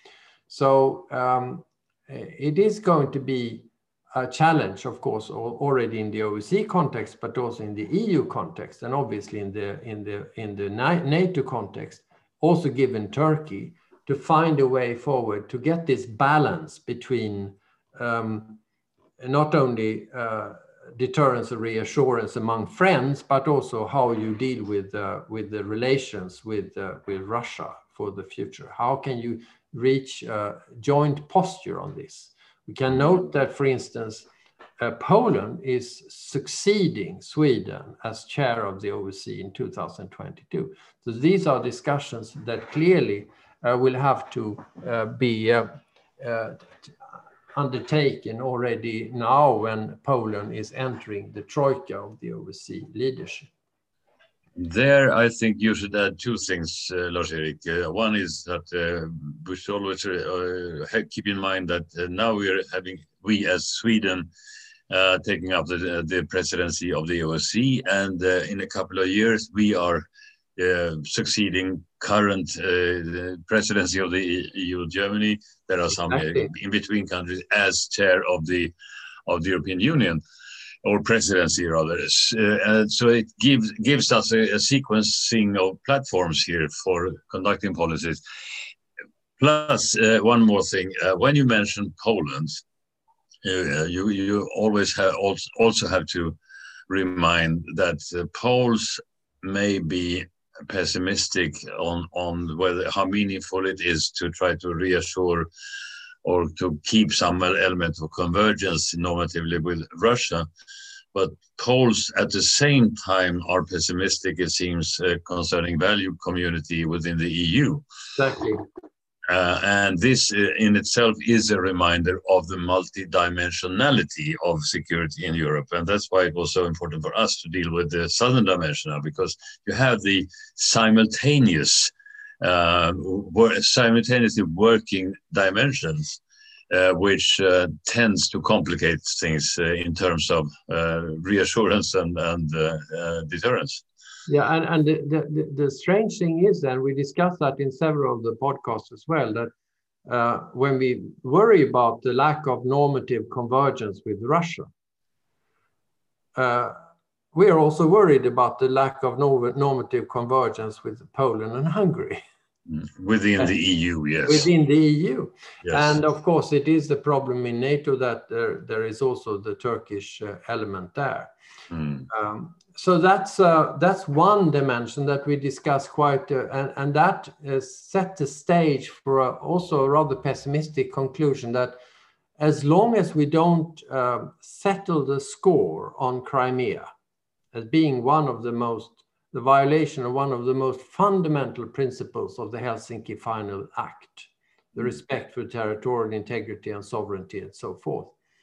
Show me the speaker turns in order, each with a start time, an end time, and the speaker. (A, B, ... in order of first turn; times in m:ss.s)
0:00.5-0:18.6 A
0:19.2-0:34.3 A
0:34.8-0:46.9 A
0:47.5-0:53.5 A
0:54.6-1:04.3 B
1:04.9-1:18.7 B
1:16.1-1:16.5 A
1:19.3-1:20.2 B
1:20.8-1:28.2 B
1:29.4-1:32.6 B
1:33.4-1:36.4 B
1:36.9-1:45.5 B
1:46.2-1:50.5 B
1:51.1-1:57.8 B
1:58.2-1:58.6 A
1:59.3-2:23.8 B
2:24.3-2:29.5 A
2:30.0-2:34.7 A
2:36.4-2:36.8 A
2:37.3-2:42.2 A
2:42.7-2:44.5 B
2:44.2-2:51.3 A
2:45.6-2:46.0 B
2:51.7-2:52.1 B
2:52.1-3:01.8 A
3:02.4-3:06.9 A
3:07.5-3:18.1 A